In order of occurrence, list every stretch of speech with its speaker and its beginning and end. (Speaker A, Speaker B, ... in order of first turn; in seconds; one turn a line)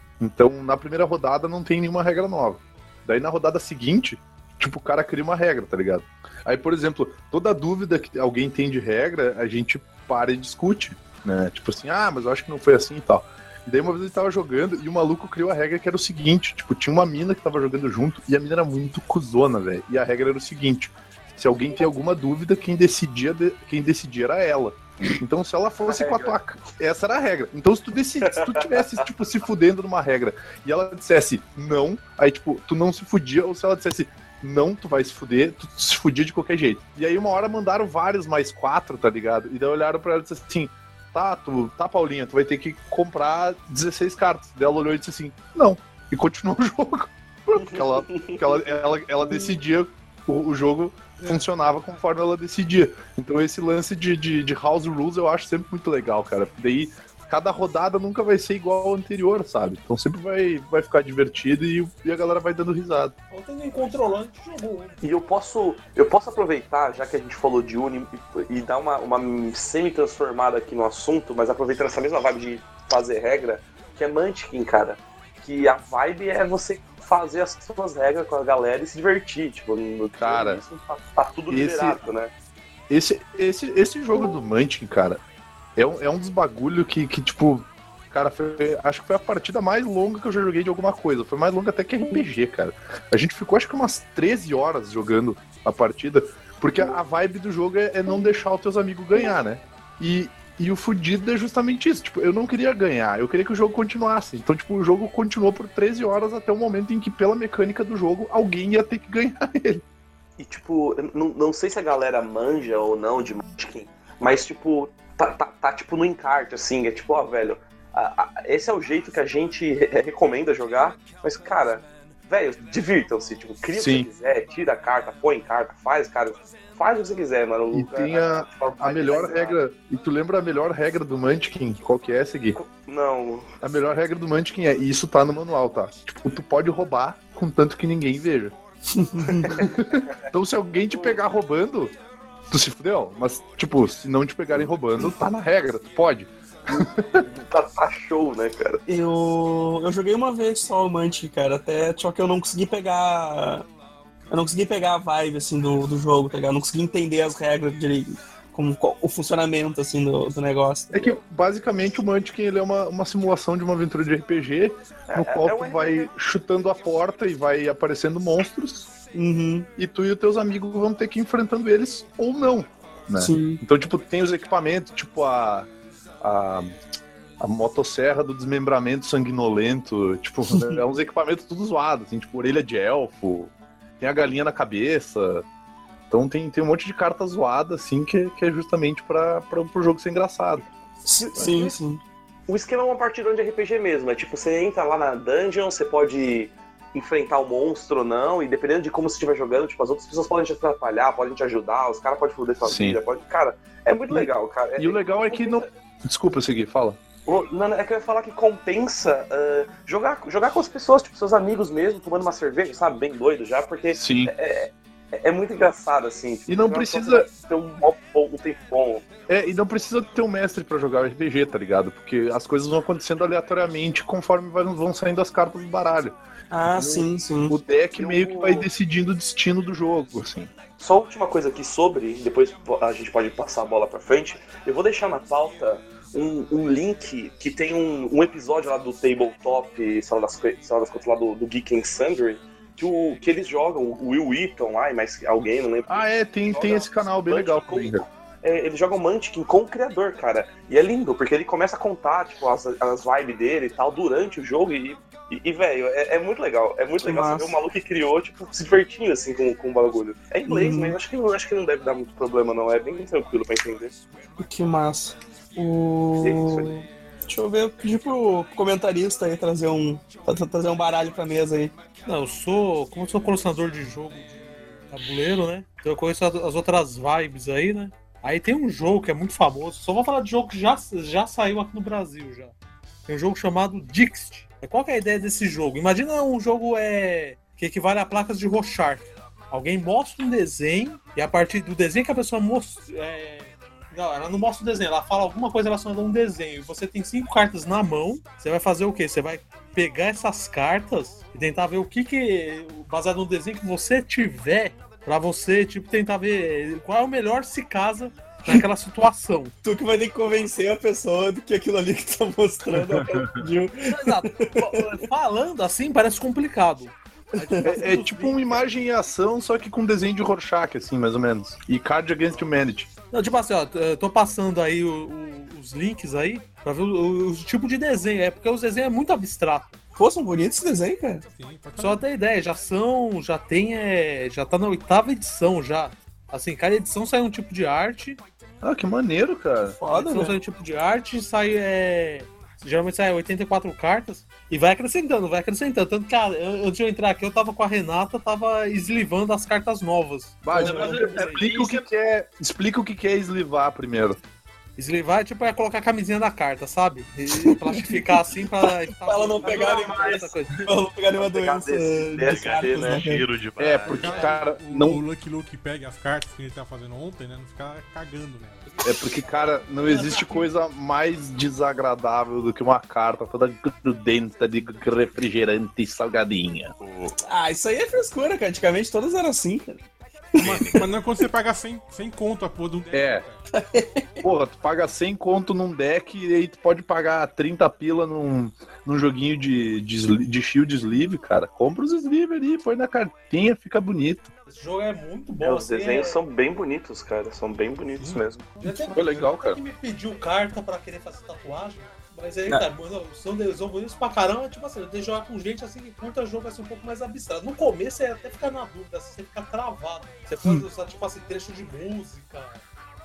Speaker A: 0.2-63.1
Speaker B: 25.8-26.4
Speaker B: 28.2-29.0
Speaker B: 47.5-48.4
Speaker C: 51.2-52.0
Speaker D: 63.3-65.0
Speaker B: 65.0-82.3
Speaker A: 80.2-80.6
Speaker A: 81.5-82.0
Speaker A: 82.9-85.2
Speaker A: 85.8-109.8
Speaker B: 110.4-129.6
Speaker A: 123.8-124.1
Speaker A: 127.7-132.6
Speaker B: 132.5-133.5
Speaker A: 133.6-138.5
Speaker E: 138.9-139.5
Speaker B: 139.3-139.7
Speaker A: 139.6-141.9
Speaker B: 140.9-141.2
Speaker A: 142.5-147.2
Speaker B: 146.8-148.8
Speaker E: 148.9-153.7
Speaker E: 154.3-160.9
Speaker A: 160.9-168.9
Speaker B: 165.1-166.1
Speaker E: 169.1-169.7
Speaker A: 169.8-175.7
Speaker E: 173.2-173.6
Speaker A: 176.2-176.8
Speaker A: 177.4-185.4
Speaker A: 186.1-190.7
Speaker E: 191.0-192.0
Speaker B: 191.4-191.7
Speaker B: 192.5-205.7
Speaker A: 202.6-203.0
Speaker A: 204.1-207.0
Speaker B: 207.2-219.1
Speaker A: 213.9-214.3
Speaker A: 216.5-217.3
Speaker A: 219.3-226.2
Speaker E: 226.5-227.6
Speaker A: 226.7-230.5
Speaker B: 227.9-228.7
Speaker B: 230.8-263.9
Speaker A: 245.9-248.0
Speaker E: 257.0-257.5
Speaker E: 260.5-260.9
Speaker E: 264.4-271.7
Speaker B: 266.2-266.8
Speaker D: 272.0-274.4
Speaker D: 274.9-282.5
Speaker D: 283.1-309.5
Speaker E: 309.6-314.8
Speaker A: 312.7-313.4
Speaker D: 313.8-318.6
Speaker A: 317.6-322.9
Speaker D: 323.1-329.8
Speaker E: 330.0-331.2
Speaker C: 331.3-332.0
Speaker D: 331.8-338.2
Speaker A: 338.6-339.8
Speaker E: 339.8-340.4
Speaker D: 339.9-351.8
Speaker A: 350.4-354.2
Speaker E: 350.5-351.0
Speaker D: 354.8-360.7
Speaker E: 357.3-358.0
Speaker E: 358.7-363.2
Speaker B: 359.5-359.8
Speaker B: 361.1-363.1
Speaker F: 362.2-364.4
Speaker A: 363.6-365.0
Speaker C: 363.8-369.1
Speaker A: 368.8-376.7
Speaker D: 369.5-370.5
Speaker F: 376.8-377.2
Speaker E: 377.2-379.7
Speaker E: 380.4-380.8
Speaker F: 380.4-380.8
Speaker C: 380.4-383.4
Speaker A: 382.9-383.2
Speaker E: 383.5-384.2
Speaker A: 384.2-394.3
Speaker D: 394.5-396.2
Speaker B: 395.4-398.5
Speaker C: 398.0-399.2
Speaker D: 398.6-412.6
Speaker A: 398.9-399.6